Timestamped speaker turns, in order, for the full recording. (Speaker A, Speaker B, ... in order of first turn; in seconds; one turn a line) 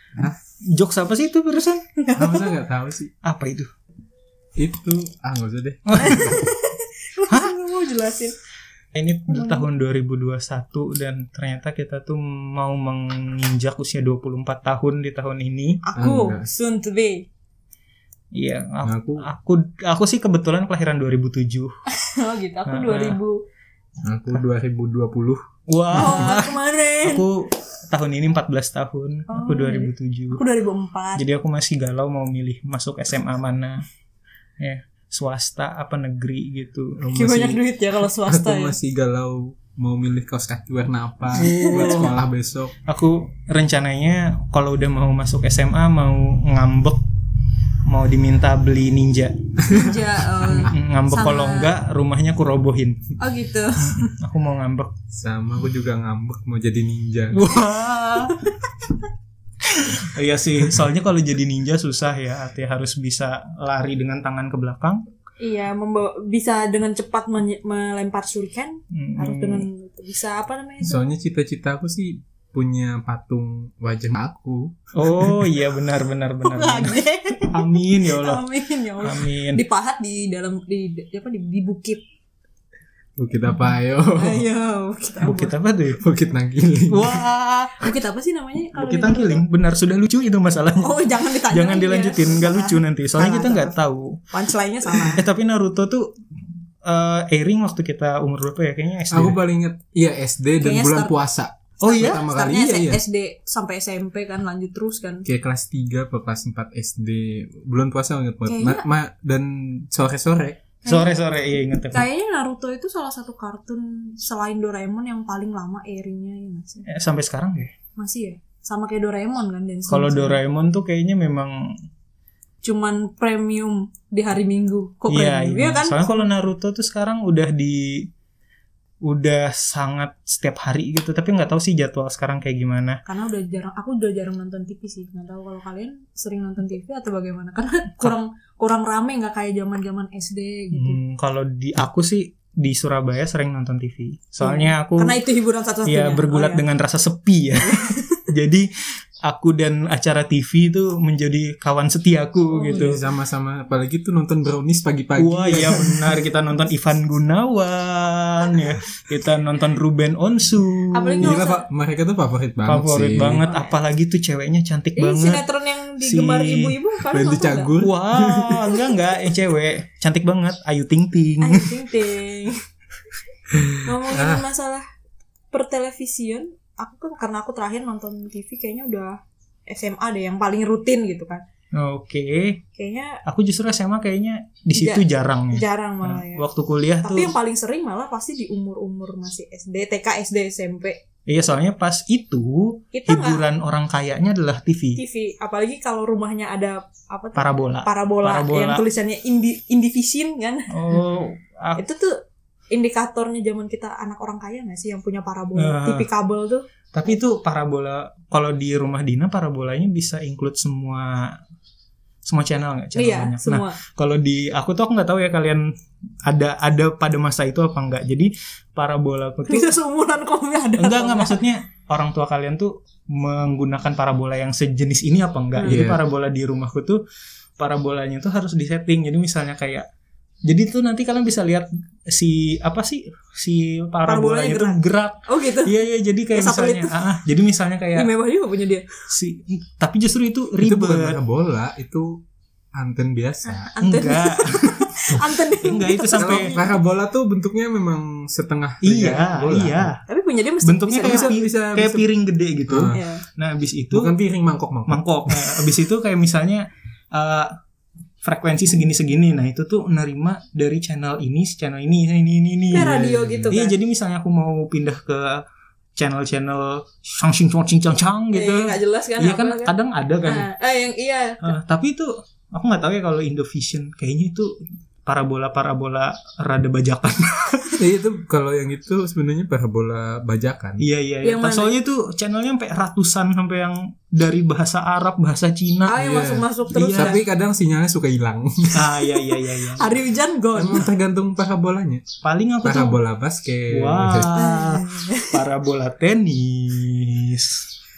Speaker A: 0.7-1.8
Speaker B: 2.0-2.4
Speaker C: 2.1-3.1
Speaker A: 3.2-3.7
Speaker C: 4.6-6.4
Speaker A: 5.9-6.4
Speaker B: 6.0-8.4
Speaker A: 8.9-15.8
Speaker B: 9.3-9.6
Speaker B: 15.8-17.3
Speaker C: 15.9-16.5
Speaker A: 18.3-21.7
Speaker C: 18.8-19.2
Speaker B: 21.9-23.4
Speaker A: 22.7-23.2
Speaker C: 24.0-25.4
Speaker A: 25.7-30.4
Speaker B: 25.9-27.2
Speaker B: 29.3-31.2
Speaker A: 31.1-33.8
Speaker A: 34.6-37.0
Speaker C: 37.0-37.6
Speaker B: 37.1-38.8
Speaker C: 38.2-42.7
Speaker A: 41.3-42.2
Speaker B: 41.4-42.0
Speaker A: 42.9-47.0
Speaker A: 47.9-53.0
Speaker B: 49.7-51.7
Speaker B: 53.2-54.1
Speaker A: 53.8-54.9
Speaker C: 55.1-57.5
Speaker A: 57.3-58.5
Speaker A: 59.6-65.0
Speaker B: 65.4-71.0
Speaker A: 68.9-69.7
Speaker C: 70.8-75.4
Speaker A: 74.9-78.4
Speaker B: 76.4-82.0
Speaker A: 79.0-79.6
Speaker C: 83.2-84.4
Speaker B: 84.2-85.5
Speaker A: 85.2-86.0
Speaker C: 86.0-87.2
Speaker A: 86.9-87.9
Speaker B: 87.8-89.4
Speaker A: 88.8-94.2
Speaker B: 90.8-93.8
Speaker B: 94.3-95.2
Speaker A: 95.1-96.1
Speaker A: 96.8-99.4
Speaker C: 99.1-103.0
Speaker B: 100.6-101.1
Speaker A: 101.8-102.2
Speaker B: 102.0-105.2
Speaker C: 105.2-110.6
Speaker B: 108.5-108.8
Speaker A: 110.8-112.1
Speaker B: 110.8-111.1
Speaker B: 111.9-116.8
Speaker A: 116.8-117.7
Speaker B: 118.0-120.4
Speaker A: 119.9-121.7
Speaker B: 122.6-126.3
Speaker A: 125.1-128.1
Speaker A: 129.0-133.0
Speaker B: 133.1-141.0
Speaker A: 140.7-145.2
Speaker B: 144.4-146.6
Speaker A: 145.8-153.0
Speaker B: 147.6-148.2
Speaker B: 152.5-152.9
Speaker C: 152.7-156.2
Speaker A: 155.2-161.4
Speaker B: 160.9-161.6
Speaker C: 161.2-163.4
Speaker A: 162.7-165.4
Speaker B: 163.2-163.8
Speaker B: 164.9-167.7
Speaker A: 166.0-166.8
Speaker C: 167.1-168.7
Speaker A: 167.8-171.8
Speaker B: 171.4-172.6
Speaker C: 173.5-174.4
Speaker B: 173.8-174.8
Speaker B: 175.5-181.4
Speaker A: 181.7-182.6
Speaker B: 182.7-183.2
Speaker A: 183.2-187.3
Speaker B: 184.7-186.4
Speaker B: 187.0-191.0
Speaker A: 191.3-195.0
Speaker B: 192.9-193.4
Speaker B: 194.9-201.0
Speaker A: 197.3-198.8
Speaker A: 200.7-201.8
Speaker B: 201.7-207.2
Speaker A: 205.6-206.1
Speaker A: 206.9-211.4
Speaker A: 212.2-215.7
Speaker B: 212.9-213.8
Speaker A: 216.2-219.7
Speaker B: 219.5-221.4
Speaker A: 220.8-227.0
Speaker B: 225.6-225.8
Speaker C: 225.6-226.0
Speaker A: 227.6-229.9
Speaker A: 230.4-238.1
Speaker B: 234.0-235.7
Speaker B: 236.3-236.9
Speaker B: 237.9-238.8
Speaker A: 239.1-241.2
Speaker C: 240.6-243.7
Speaker B: 243.5-246.7
Speaker A: 243.8-244.8
Speaker A: 245.6-246.6
Speaker C: 246.1-249.9
Speaker A: 248.8-250.0
Speaker B: 250.1-251.3
Speaker A: 250.6-254.1
Speaker C: 251.0-252.1
Speaker C: 252.7-253.0
Speaker B: 252.9-253.2
Speaker C: 253.9-255.7
Speaker A: 254.9-257.6
Speaker A: 258.2-265.4
Speaker B: 262.7-263.8
Speaker C: 262.8-263.5
Speaker A: 265.9-270.5
Speaker B: 268.3-269.7
Speaker B: 270.2-271.5
Speaker A: 271.4-277.8
Speaker C: 277.8-280.8
Speaker A: 280.8-286.0
Speaker B: 281.2-281.8
Speaker B: 285.9-287.2
Speaker C: 286.0-289.2
Speaker A: 286.7-287.2
Speaker A: 288.7-290.0
Speaker B: 289.7-290.9
Speaker C: 290.5-292.0
Speaker A: 292.2-293.0
Speaker C: 292.6-294.3
Speaker A: 293.7-297.6
Speaker B: 294.3-295.4